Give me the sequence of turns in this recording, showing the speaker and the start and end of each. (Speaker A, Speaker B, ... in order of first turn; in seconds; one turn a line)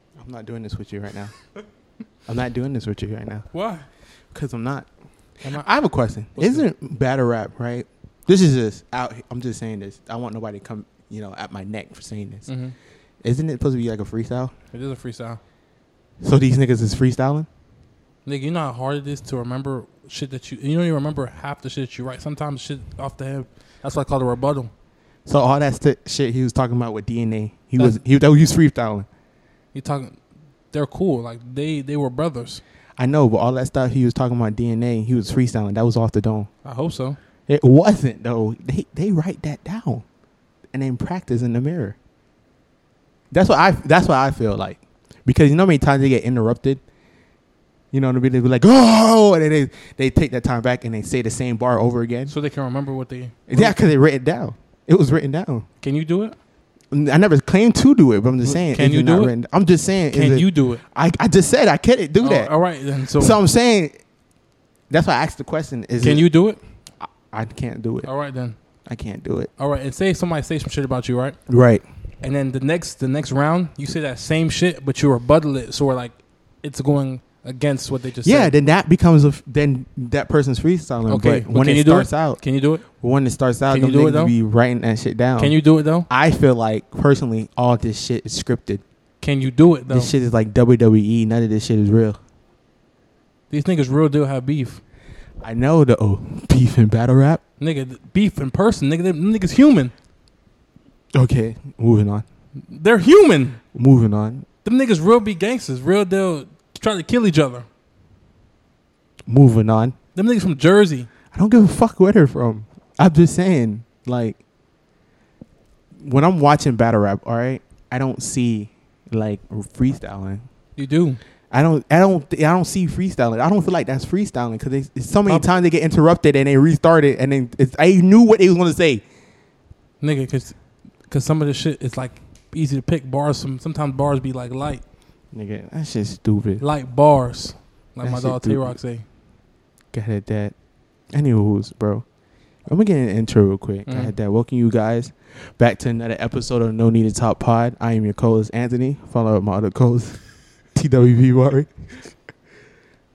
Speaker A: 0.2-1.3
Speaker A: 2.3-3.5
Speaker B: 3.5-3.9
Speaker A: 4.3-4.9
Speaker A: 5.5-12.5
Speaker B: 6.4-6.7
Speaker B: 12.5-12.7
Speaker A: 13.2-14.5
Speaker B: 14.7-15.4
Speaker A: 16.2-17.5
Speaker B: 18.3-24.7
Speaker A: 25.3-29.1
Speaker B: 29.7-30.2
Speaker B: 30.7-32.6
Speaker A: 33.0-36.5
Speaker B: 36.6-37.2
Speaker A: 37.5-40.0
Speaker A: 40.7-42.0
Speaker A: 43.3-46.8
Speaker A: 47.9-52.3
Speaker B: 52.3-53.8
Speaker A: 53.5-55.6
Speaker B: 55.8-56.3
Speaker A: 56.9-62.5
Speaker B: 58.6-59.3
Speaker B: 60.1-60.8
Speaker B: 62.2-63.4
Speaker A: 63.2-63.9
Speaker A: 64.9-66.2
Speaker B: 66.0-66.6
Speaker A: 67.0-68.1
Speaker B: 68.0-68.6
Speaker A: 68.9-69.5
Speaker B: 69.6-71.4
Speaker A: 71.5-71.8
Speaker B: 72.2-78.5
Speaker A: 78.2-82.4
Speaker B: 81.1-82.8
Speaker A: 83.0-85.6
Speaker B: 83.7-84.3
Speaker B: 85.4-86.1
Speaker A: 86.1-88.8
Speaker B: 89.2-90.1
Speaker A: 89.9-92.2
Speaker B: 93.5-94.8
Speaker A: 95.4-97.4
Speaker B: 97.6-99.9
Speaker A: 101.1-102.2
Speaker B: 102.7-103.6
Speaker A: 103.7-104.4
Speaker B: 104.6-107.7
Speaker A: 109.3-109.9
Speaker B: 110.1-111.1
Speaker A: 111.3-114.4
Speaker A: 116.0-120.4
Speaker B: 120.8-121.2
Speaker A: 121.5-129.0
Speaker B: 130.0-130.6
Speaker B: 131.1-134.8
Speaker A: 135.3-136.6
Speaker B: 136.6-139.1
Speaker A: 138.0-138.8
Speaker A: 139.9-140.5
Speaker A: 141.1-142.0
Speaker A: 142.7-150.2
Speaker B: 143.9-144.1
Speaker A: 150.7-151.7